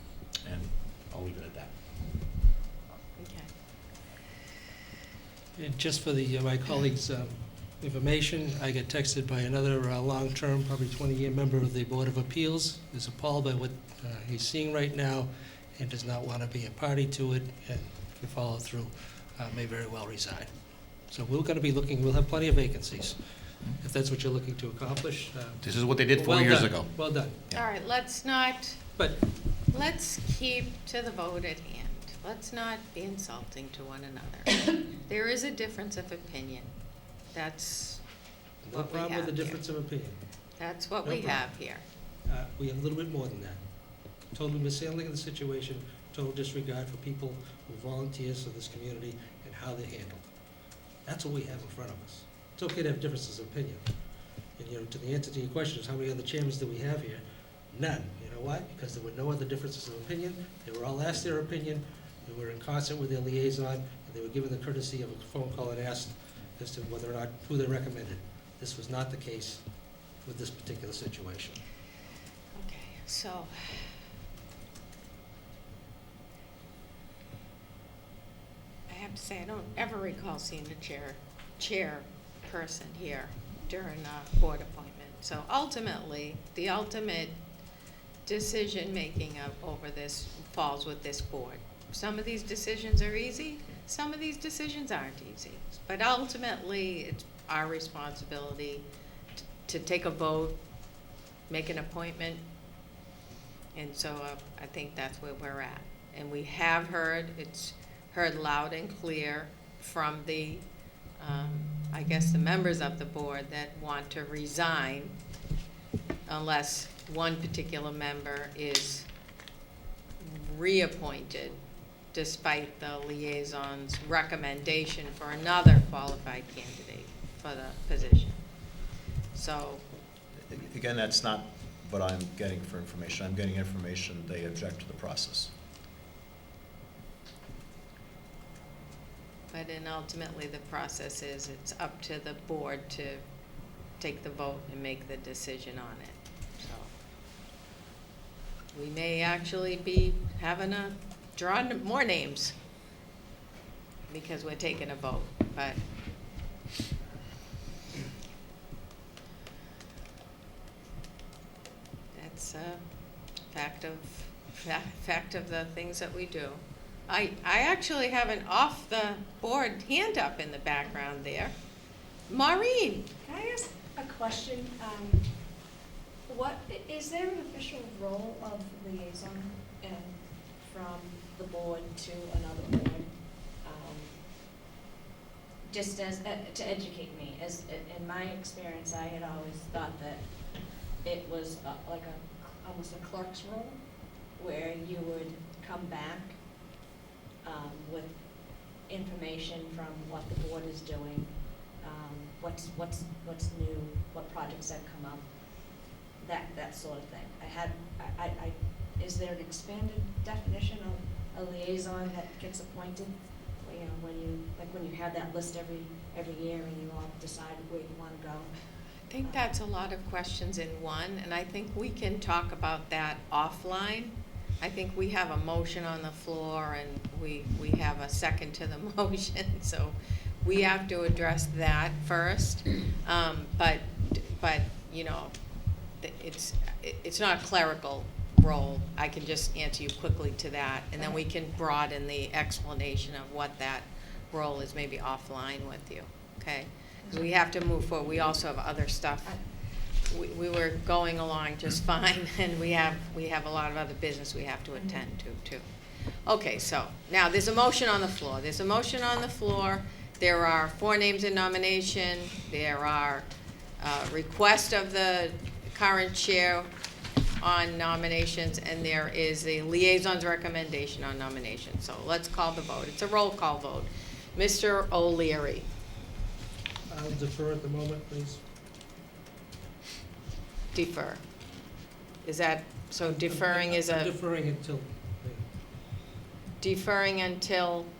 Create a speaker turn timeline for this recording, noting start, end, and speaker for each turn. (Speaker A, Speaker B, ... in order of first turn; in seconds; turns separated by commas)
Speaker A: 0.4-1.7, Speaker B: 3.2-3.5, Speaker C: 5.6-20.5, Speaker C: 21.1-23.2, Speaker C: 23.8-27.5, Speaker A: 25.6-26.9, Speaker B: 27.5-28.8, Speaker C: 28.9-29.2, Speaker B: 29.7-36.7, Speaker B: 37.3-38.0, Speaker C: 38.6-40.2, Speaker B: 38.7-39.6, Speaker B: 40.6-41.8, Speaker C: 41.0-41.5, Speaker C: 42.2-43.6, Speaker C: 44.3-50.3, Speaker C: 51.0-53.8, Speaker C: 54.6-69.6, Speaker C: 70.2-71.6, Speaker B: 72.5-73.9, Speaker B: 78.9-87.4, Speaker B: 88.2-98.8, Speaker B: 99.6-100.6, Speaker B: 101.5-102.4, Speaker B: 103.7-110.6, Speaker B: 111.2-115.2, Speaker B: 116.3-119.1, Speaker B: 120.2-121.6, Speaker B: 122.1-128.4, Speaker B: 129.3-129.8, Speaker D: 130.5-135.5, Speaker B: 139.5-143.2, Speaker B: 144.0-146.9, Speaker B: 148.7-152.5, Speaker B: 154.1-155.8, Speaker B: 162.1-162.8, Speaker B: 163.5-171.5, Speaker B: 172.3-173.1, Speaker E: 173.2-175.3, Speaker E: 176.3-183.1, Speaker E: 183.6-184.1, Speaker E: 185.7-190.2, Speaker E: 191.0-193.8, Speaker E: 194.4-196.4, Speaker E: 197.4-198.1, Speaker E: 198.9-205.2, Speaker E: 206.2-218.5, Speaker B: 219.1-235.3, Speaker E: 219.2-219.5, Speaker B: 236.0-249.4, Speaker B: 250.1-255.6, Speaker B: 256.2-263.3, Speaker B: 263.8-266.7, Speaker B: 267.4-275.7, Speaker C: 276.9-278.4, Speaker B: 280.7-281.2, Speaker B: 282.2-284.1, Speaker C: 283.0-285.4, Speaker B: 286.6-287.9